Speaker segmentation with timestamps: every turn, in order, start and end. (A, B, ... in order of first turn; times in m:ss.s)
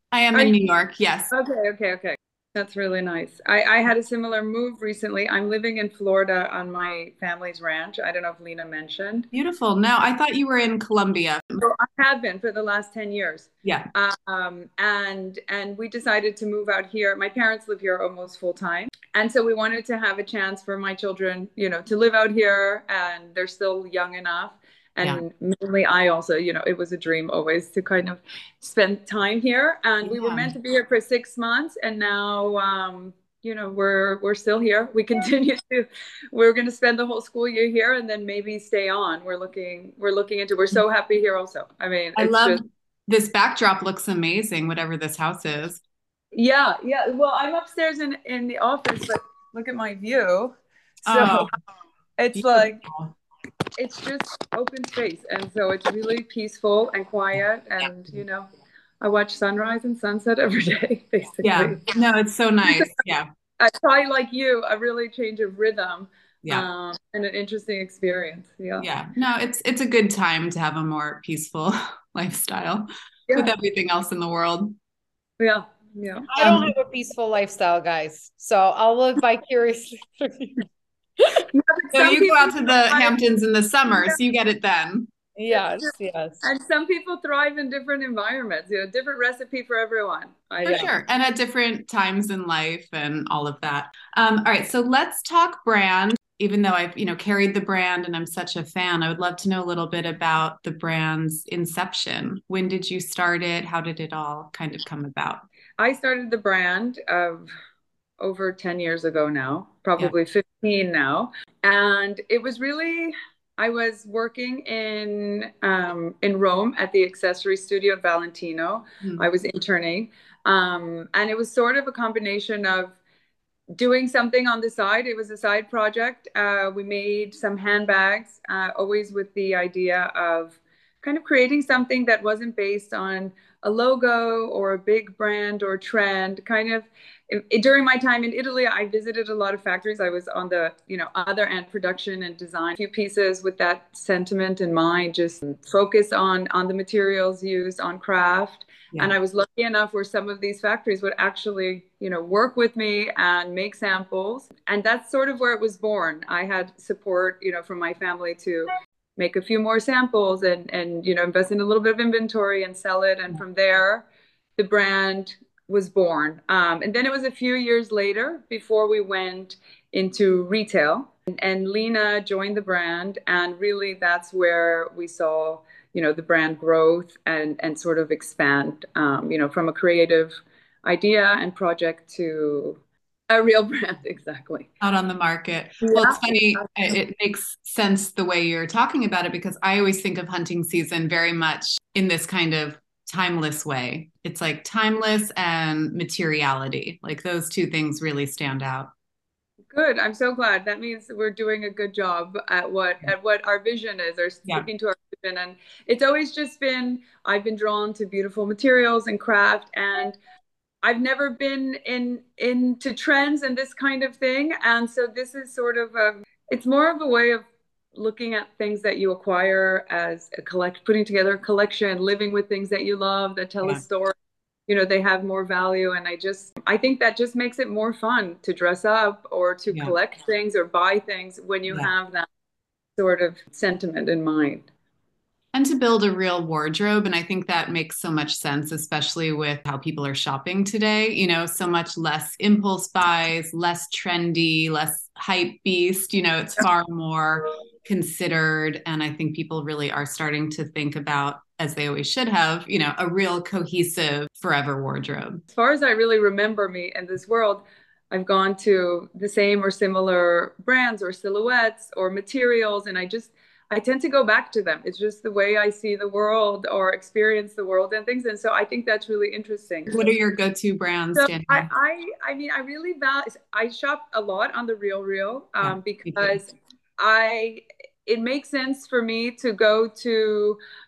0:00.1-0:01.3 A
0:01.3-0:09.3 B
0:09.3-0:11.6 A
0:11.6-0:42.6 B
0:13.6-0:13.9 A
0:30.0-0:30.5 A
0:42.2-0:45.8 A
0:46.3-0:51.5 B
0:51.0-0:51.5 A
0:52.2-0:52.8 B
0:52.4-0:53.1 A
0:53.8-0:58.5 B
0:59.0-1:01.8 B
1:01.4-1:03.3 A
1:02.6-1:03.0 B
1:03.6-1:08.9 B
1:08.8-1:14.8 A
1:15.4-1:16.3 B
1:16.3-1:20.6 C
1:16.4-1:16.7 A
1:21.5-1:23.2 B
1:21.9-1:25.1 A
1:23.9-1:24.2 B
1:25.4-1:26.5 C
1:25.5-1:30.9 B
1:30.6-1:45.4 A
1:45.8-1:47.5 B
1:48.2-2:03.0 B
2:03.8-2:44.0 B
2:44.6-3:04.7 B
3:04.8-3:18.9 A
3:05.8-3:06.7 B
3:19.7-3:30.2 B
3:30.8-3:44.1 B
3:44.7-3:52.3 B
3:51.7-3:51.9 A
3:53.0-3:54.7 B
3:55.5-4:15.4 A
4:15.5-4:30.1 B
4:29.9-4:31.7 A
4:31.1-4:40.6 B
4:35.6-4:36.4 A